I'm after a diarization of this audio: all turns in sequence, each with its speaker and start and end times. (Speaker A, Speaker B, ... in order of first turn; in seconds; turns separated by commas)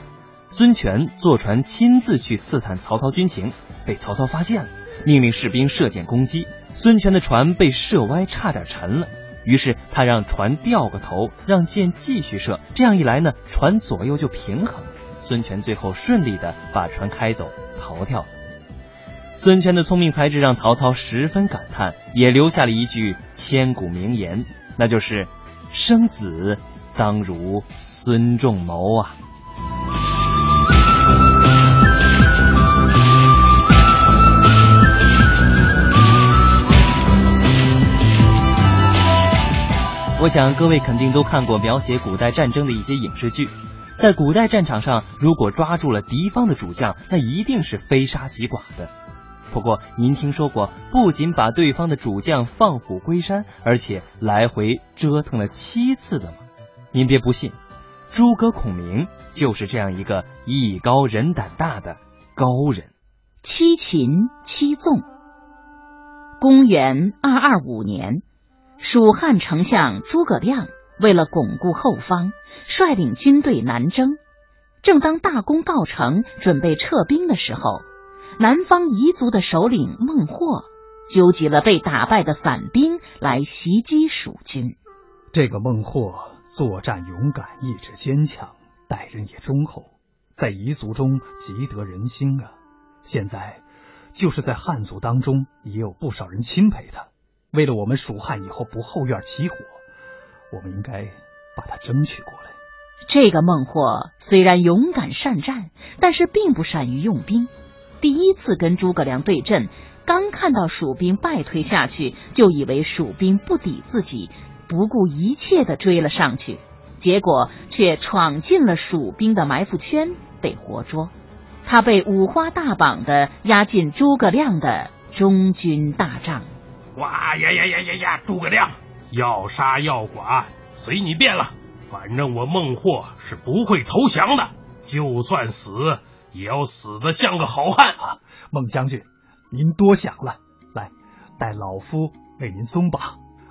Speaker A: 0.5-18.3, Speaker A: 19.4-29.1, Speaker A: 40.2-48.9, Speaker A: 49.5-57.6, Speaker A: 58.1-62.9, Speaker B: 63.4-65.0, Speaker B: 66.4-68.2, Speaker B: 68.8-74.2, Speaker B: 74.8-77.8, Speaker B: 78.4-84.8, Speaker C: 85.3-92.5, Speaker C: 93.0-93.6, Speaker C: 94.1-99.8, Speaker C: 100.5-102.5, Speaker B: 103.1-107.5, Speaker B: 108.0-121.1, Speaker B: 121.6-126.5, Speaker D: 126.9-138.0, Speaker C: 138.0-143.2